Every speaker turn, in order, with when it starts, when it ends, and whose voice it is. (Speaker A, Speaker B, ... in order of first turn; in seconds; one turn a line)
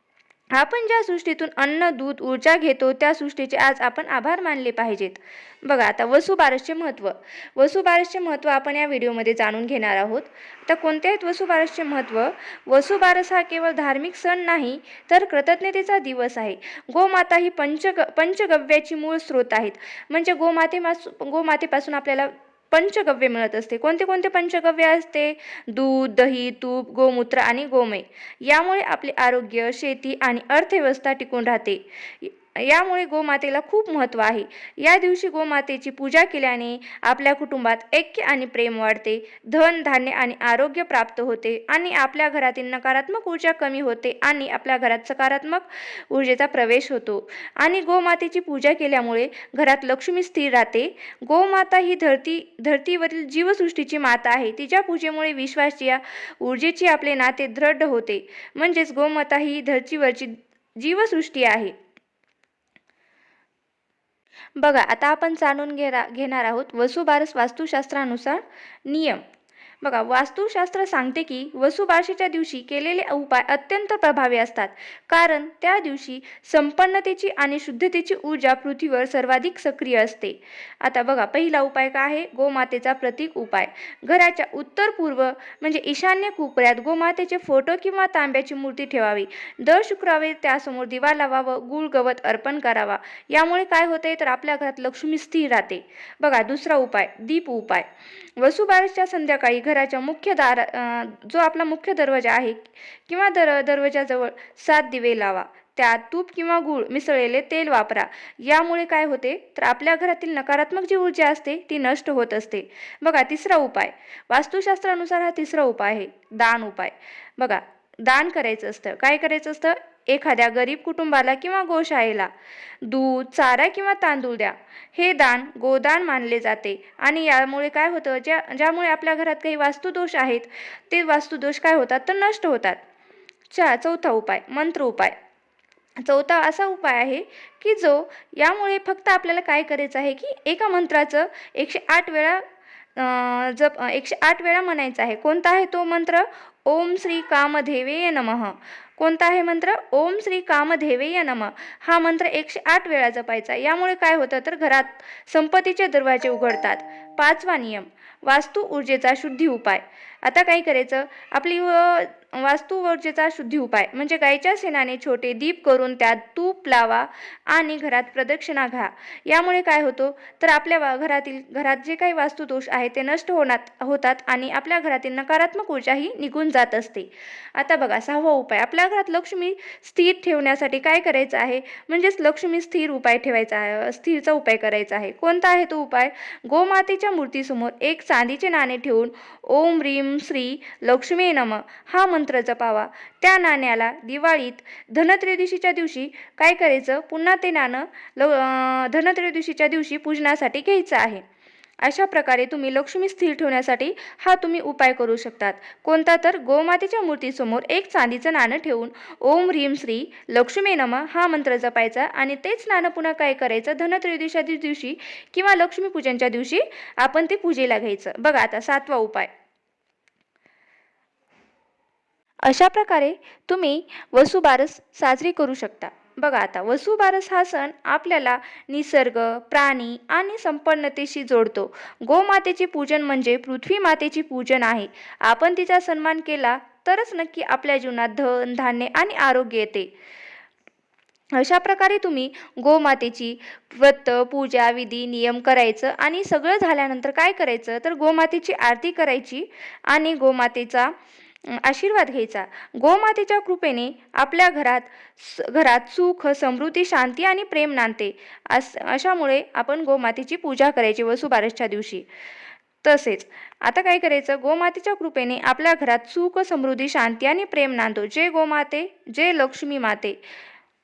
Speaker A: 0.5-61.7
Speaker A: 64.6-69.2
Speaker A: 69.8-122.3
Speaker A: 122.8-132.8
Speaker A: 133.5-135.2
Speaker A: 136.0-142.4
Speaker A: 143.0-201.2
Speaker A: 201.8-219.3
Speaker A: 222.4-239.9
Speaker A: 241.3-250.9
Speaker A: 251.5-262.1
Speaker A: 262.8-270.2